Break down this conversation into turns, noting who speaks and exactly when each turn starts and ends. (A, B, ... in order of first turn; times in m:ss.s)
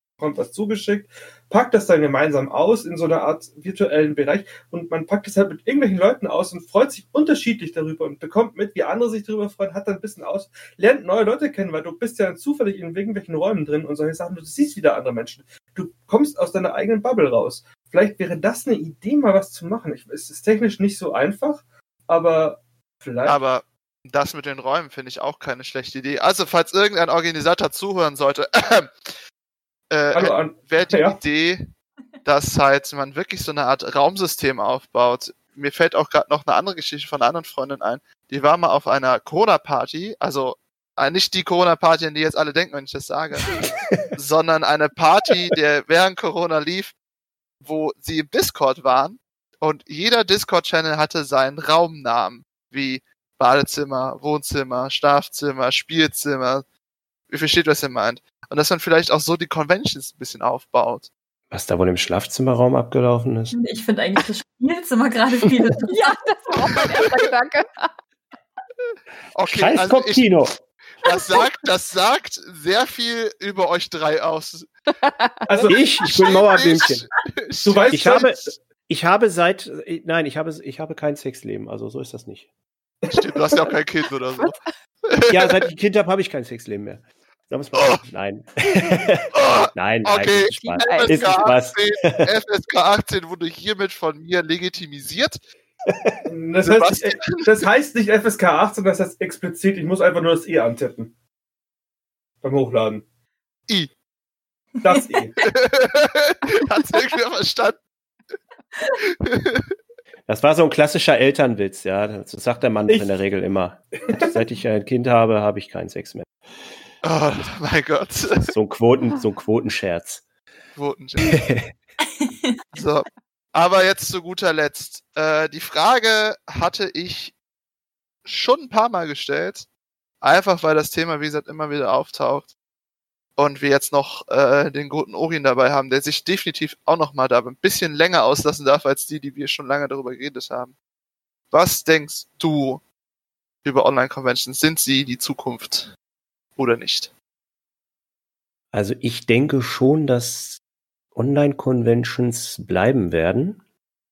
0:00.2-0:23.4 A
0:23.2-0:28.9 B
0:29.9-0:31.7 B
0:30.1-0:31.2 A
0:32.2-0:43.6 B
0:43.8-0:44.1 C
0:44.2-0:47.0 B
0:47.6-0:56.6 B
0:57.3-1:01.1 B
1:01.5-1:03.6 C
1:03.5-1:06.8 D
1:05.9-1:07.9 E
1:08.9-1:10.5 B
1:09.5-1:10.6 C
1:11.0-1:14.7 B
1:11.0-1:11.5 E
1:15.0-1:15.8 E
1:15.5-1:15.8 A
1:15.7-1:17.1 C
1:16.0-1:18.5 B
1:17.6-1:18.5 A
1:17.9-1:22.5 C
1:23.0-1:23.3 A
1:23.1-1:24.6 B
1:25.1-1:25.6 B
1:25.3-1:32.3 C
1:27.8-1:28.0 B
1:29.3-1:35.4 B
1:30.6-1:31.5 E
1:35.9-1:36.2 C
1:36.2-1:41.1 A
1:36.6-1:37.6 B
1:42.4-1:43.0 A
1:44.8-1:45.4 A
1:44.8-1:45.1 D
1:45.4-1:47.8 B
1:49.0-1:49.7 B
1:50.3-1:56.3 C
1:52.9-1:53.2 A
1:54.0-1:54.4 A
1:57.0-1:58.5 B
1:58.5-2:00.2 C
2:00.8-2:01.4 B
2:01.2-2:01.7 C
2:02.2-2:02.6 D
2:02.7-2:07.4 B
2:08.3-2:09.7 B
2:10.2-2:12.5 B
2:13.4-2:20.7 B
2:21.5-2:22.8 B
2:23.6-2:25.9 B
2:26.6-2:27.1 B
2:28.7-2:30.6 C
2:31.2-2:33.6 C